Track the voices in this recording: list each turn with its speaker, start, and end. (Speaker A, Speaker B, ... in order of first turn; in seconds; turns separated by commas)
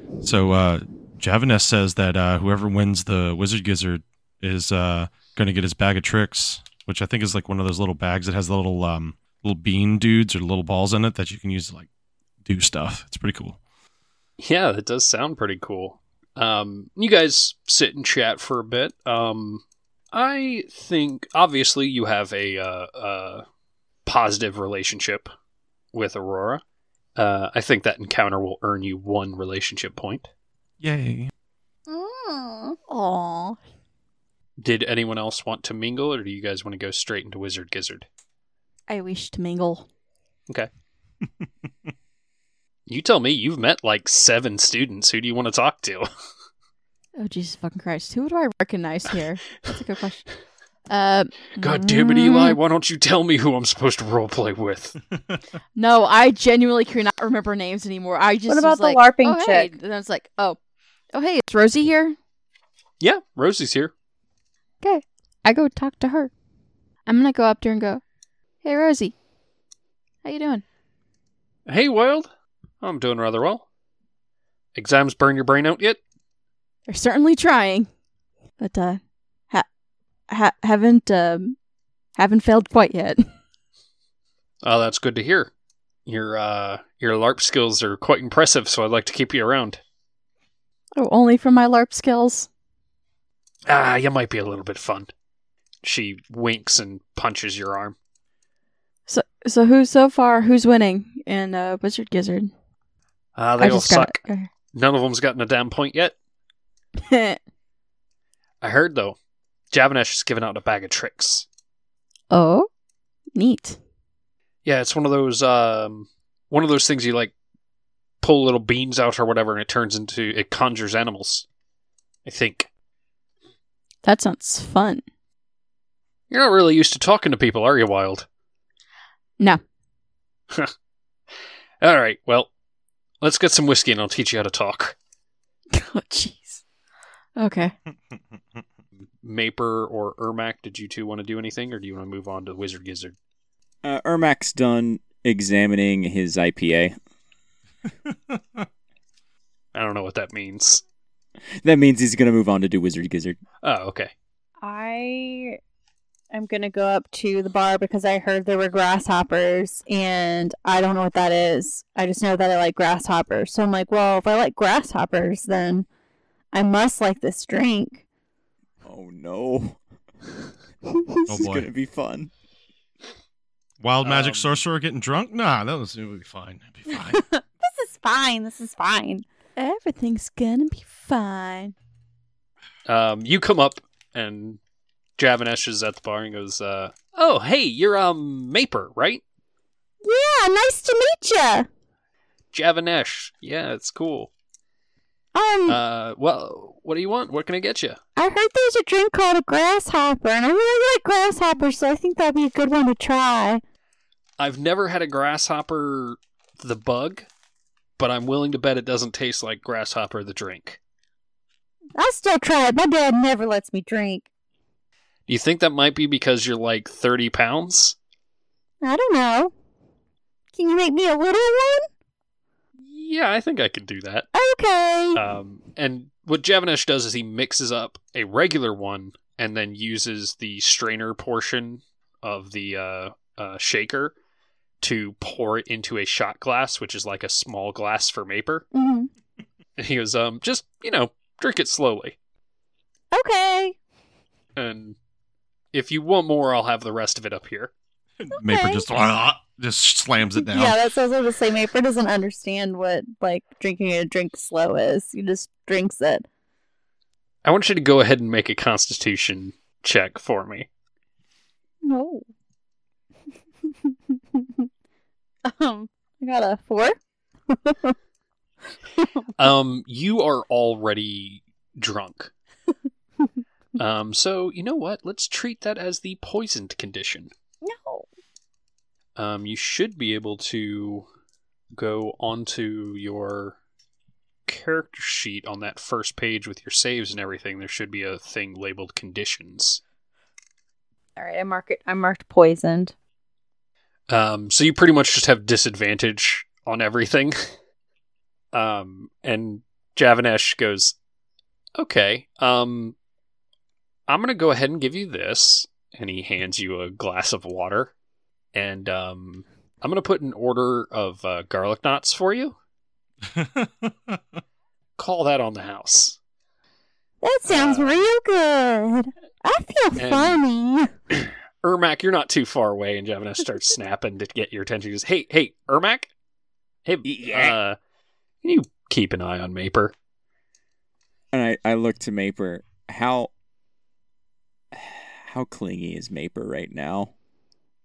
Speaker A: 0.2-11.9, Speaker A: 12.4-13.6, Speaker B: 14.4-23.4, Speaker B: 24.1-25.3, Speaker B: 25.9-26.6, Speaker B: 27.2-30.3, Speaker A: 30.8-31.3, Speaker C: 31.9-32.8, Speaker D: 32.9-33.6, Speaker B: 34.6-38.1, Speaker D: 38.9-39.9, Speaker B: 42.9-46.1, Speaker D: 47.2-50.3, Speaker D: 50.9-52.6, Speaker B: 51.6-55.0, Speaker D: 55.8-60.6, Speaker C: 58.5-59.7, Speaker D: 61.1-62.2, Speaker B: 63.0-63.9, Speaker D: 64.8-66.3, Speaker D: 67.1-68.0, Speaker D: 68.6-69.1, Speaker D: 70.2-70.6, Speaker B: 71.7-72.3, Speaker B: 72.8-73.6, Speaker B: 74.8-76.0, Speaker D: 76.9-77.9, Speaker D: 78.6-79.7, Speaker D: 80.3-81.6, Speaker D: 82.2-83.2, Speaker B: 84.6-85.5, Speaker B: 86.1-89.8, Speaker D: 91.0-92.5, Speaker B: 93.7-95.1, Speaker B: 95.8-98.0, Speaker D: 99.1-102.5, Speaker B: 103.3-106.2, Speaker D: 103.6-104.5, Speaker D: 107.0-107.4, Speaker B: 108.6-109.2, Speaker B: 109.7-111.5, Speaker D: 112.3-112.7, Speaker D: 113.3-113.8, Speaker B: 114.7-117.3, Speaker B: 118.2-121.5, Speaker B: 122.2-122.7, Speaker D: 124.0-125.0, Speaker B: 126.3-128.3, Speaker B: 131.8-132.5, Speaker B: 133.2-135.0, Speaker D: 135.7-136.6, Speaker D: 137.4-137.7, Speaker B: 139.2-143.2, Speaker E: 143.8-146.9, Speaker A: 148.1-148.7, Speaker B: 149.7-150.8, Speaker E: 151.6-153.4, Speaker B: 153.6-154.1, Speaker C: 154.6-155.6, Speaker C: 156.3-165.9, Speaker C: 166.5-168.0, Speaker E: 168.8-169.8, Speaker C: 170.9-171.3, Speaker A: 171.3-171.7, Speaker E: 171.3-172.3, Speaker A: 173.8-177.3, Speaker B: 174.0-174.6, Speaker C: 177.0-179.3, Speaker D: 179.6-181.8, Speaker B: 182.9-184.6, Speaker B: 185.2-189.2, Speaker C: 190.0-191.7, Speaker B: 192.5-194.3, Speaker C: 195.3-195.8, Speaker B: 195.7-198.0, Speaker C: 198.2-203.6, Speaker B: 204.4-207.3, Speaker B: 208.0-210.8, Speaker C: 212.0-214.3, Speaker B: 215.3-218.0, Speaker C: 218.8-219.5, Speaker C: 220.5-221.9, Speaker B: 222.8-224.3, Speaker C: 224.3-225.2, Speaker B: 225.1-234.2, Speaker B: 234.8-238.7, Speaker C: 238.7-239.1, Speaker B: 239.8-242.2, Speaker C: 243.1-243.8, Speaker B: 244.6-245.0, Speaker B: 245.7-247.7, Speaker A: 248.2-250.7, Speaker C: 248.3-248.9, Speaker C: 250.4-256.2, Speaker B: 257.4-260.7, Speaker C: 261.8-262.2, Speaker C: 263.9-264.4, Speaker C: 265.4-267.0, Speaker C: 267.5-267.9, Speaker C: 269.0-269.3, Speaker B: 269.4-272.3, Speaker B: 273.8-277.3, Speaker C: 277.6-278.1, Speaker B: 279.2-281.1, Speaker B: 281.8-283.6, Speaker B: 284.5-289.8, Speaker C: 291.2-292.9, Speaker B: 294.1-297.5, Speaker B: 298.5-301.0, Speaker B: 301.8-303.0, Speaker B: 304.1-307.9, Speaker B: 308.5-312.6, Speaker A: 313.3-314.2, Speaker B: 315.0-316.2, Speaker C: 317.2-320.9, Speaker B: 317.4-318.1, Speaker B: 320.0-320.4, Speaker B: 321.1-326.1, Speaker B: 326.9-327.8, Speaker E: 327.0-327.6, Speaker B: 328.4-329.9, Speaker E: 331.3-333.3, Speaker E: 334.7-337.1